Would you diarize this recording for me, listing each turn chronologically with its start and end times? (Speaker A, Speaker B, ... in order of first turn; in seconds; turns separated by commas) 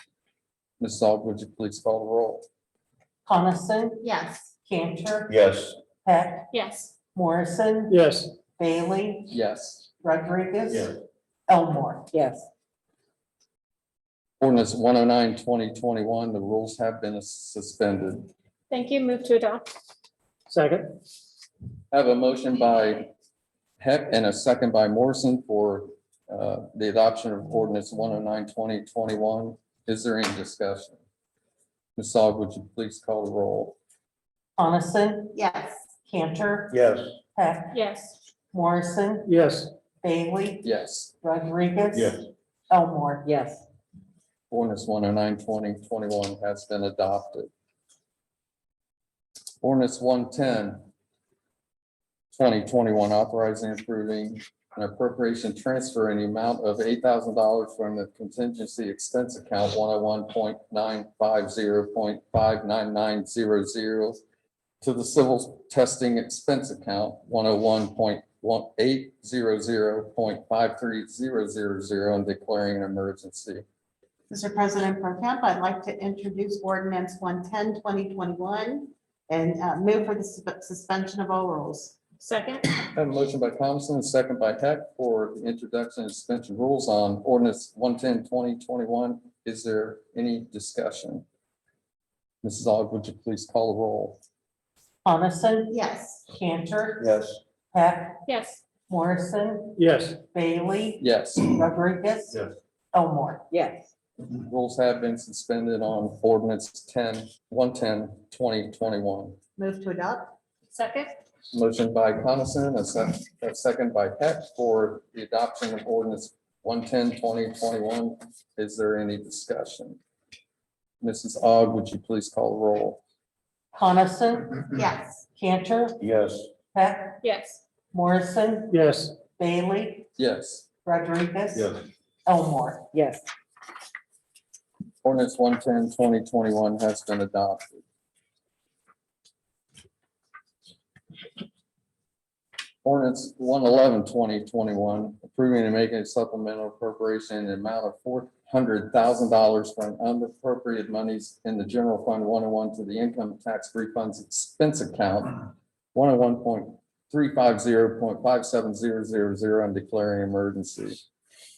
Speaker A: 0.8-2.5, Speaker B: 3.3-4.0, Speaker C: 4.0-4.5, Speaker B: 4.7-5.3, Speaker D: 5.3-5.8, Speaker B: 6.0-6.5, Speaker E: 6.5-6.9, Speaker B: 7.1-8.0, Speaker F: 7.9-8.4, Speaker B: 8.5-9.3, Speaker A: 9.3-9.8, Speaker B: 10.0-10.9, Speaker B: 11.5-12.1, Speaker A: 14.4-18.3, Speaker E: 18.7-19.7, Speaker F: 20.5-20.9, Speaker A: 21.9-23.1, Speaker A: 23.8-31.0, Speaker A: 32.0-33.8, Speaker B: 34.6-35.3, Speaker C: 35.3-36.0, Speaker B: 36.0-36.8, Speaker D: 36.7-37.1, Speaker B: 37.4-37.8, Speaker E: 37.7-38.2, Speaker B: 38.5-39.3, Speaker F: 39.3-39.7, Speaker B: 40.0-40.6, Speaker A: 40.6-41.1, Speaker B: 41.2-43.2, Speaker D: 41.9-42.2, Speaker A: 44.5-47.5, Speaker A: 49.6-50.8, Speaker A: 52.3-64.2, Speaker A: 64.8-73.7, Speaker C: 74.3-82.0, Speaker E: 82.2-82.6, Speaker A: 82.9-91.2, Speaker A: 92.4-94.2, Speaker B: 95.0-95.7, Speaker C: 95.7-96.3, Speaker B: 96.4-97.1, Speaker D: 97.0-97.4, Speaker B: 97.7-98.2, Speaker E: 98.3-98.6, Speaker B: 98.9-101.0, Speaker F: 99.8-100.2, Speaker A: 101.0-101.6, Speaker B: 101.6-102.4, Speaker B: 102.9-103.5, Speaker A: 104.5-109.4, Speaker C: 109.6-110.3, Speaker E: 110.8-111.1, Speaker A: 111.5-120.0, Speaker A: 121.0-123.0, Speaker B: 123.7-124.7, Speaker C: 124.8-125.3, Speaker B: 125.3-126.0, Speaker D: 126.0-126.5, Speaker B: 126.7-127.2, Speaker E: 127.2-127.6, Speaker B: 127.9-128.8, Speaker F: 128.7-129.3, Speaker B: 129.3-130.1, Speaker A: 130.2-130.7, Speaker B: 130.8-131.7, Speaker B: 132.3-132.9, Speaker A: 135.0-137.8, Speaker A: 142.8-155.4, Speaker A: 155.9-161.0